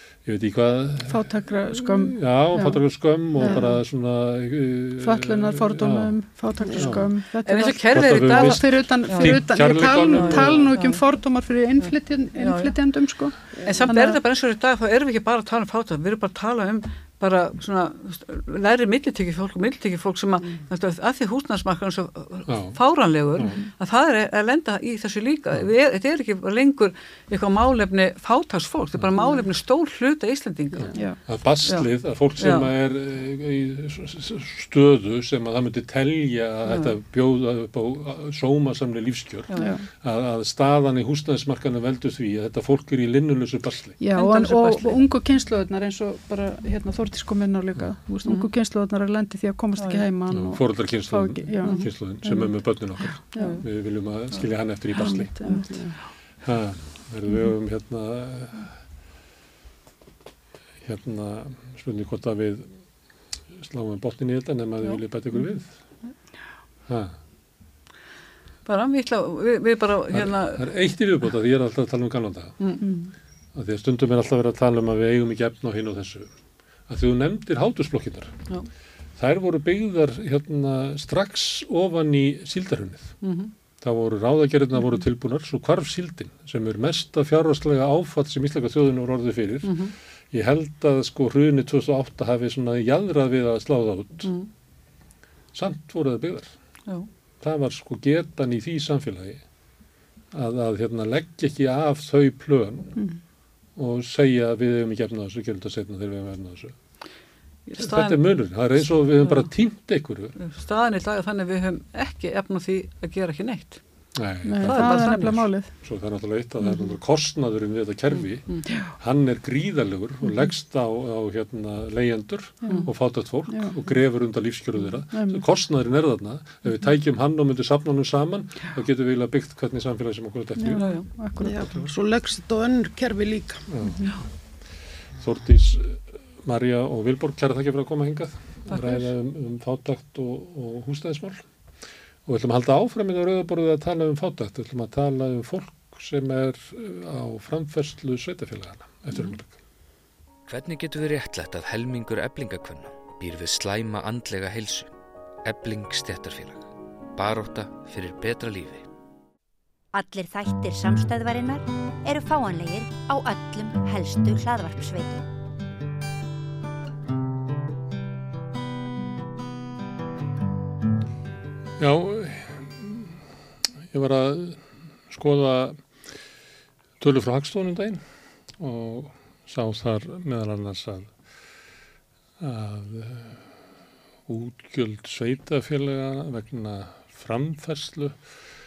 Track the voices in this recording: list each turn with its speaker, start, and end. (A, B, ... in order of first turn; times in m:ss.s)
0:00.2-0:07.1 A
0:01.0-0:03.8 B
0:05.0-0:14.2 B
0:06.6-0:11.0 C
0:07.9-0:10.6 A
0:11.8-0:32.7 C
0:13.5-0:13.9 D
0:22.5-0:22.8 A
0:23.4-0:23.7 B
0:28.9-0:29.2 A
0:30.7-0:44.0 A
0:30.9-0:31.3 B
0:36.6-0:37.0 C
0:39.5-0:39.8 C
0:39.5-0:39.8 B
0:44.0-0:53.6 B
0:44.1-0:45.0 C
0:48.2-0:48.5 C
0:49.8-0:50.1 C
0:50.3-0:55.3 A
0:51.6-0:52.0 C
0:53.3-0:53.7 C
0:54.3-0:56.0 C
0:54.9-0:55.9 B
0:56.4-0:58.8 A
1:00.8-1:02.8 A
1:03.6-1:05.8 A
1:04.8-1:05.6 C
1:06.9-1:07.2 A
1:08.6-1:10.6 C
1:10.1-1:12.6 A
1:12.6-1:13.0 C
1:12.8-1:13.1 B
1:13.5-1:16.3 A
1:16.9-1:18.3 A
1:19.2-1:23.2 A
1:23.2-1:23.5 C
1:23.8-1:34.3 A
1:29.6-1:30.0 C
1:34.2-1:34.5 C
1:35.5-1:36.6 A
1:37.4-1:39.4 A
1:40.3-1:43.0 A
1:43.8-1:46.8 A
1:47.6-1:49.5 C
1:47.8-1:50.4 A
1:50.4-1:53.8 C
1:54.2-2:10.9 A
1:54.4-1:55.8 B
1:54.6-1:55.5 C
1:56.6-1:56.9 C
1:58.1-1:58.7 C
1:58.7-1:58.9 B
2:02.6-2:03.8 B
2:02.6-2:02.9 C
2:05.1-2:05.4 B
2:10.6-2:11.8 B
2:10.7-2:11.1 C
2:11.4-2:13.6 D
2:13.7-2:14.2 A
2:15.1-2:21.5 A
2:18.7-2:19.1 C
2:22.2-2:29.6 A
2:30.5-2:34.9 E
2:35.4-2:38.9 E
2:39.9-2:45.2 F
2:51.8-2:53.2 A
2:53.9-2:55.9 A
2:57.0-2:58.0 A
2:58.6-3:01.1 A
3:02.4-3:03.5 A
3:04.3-3:08.4 A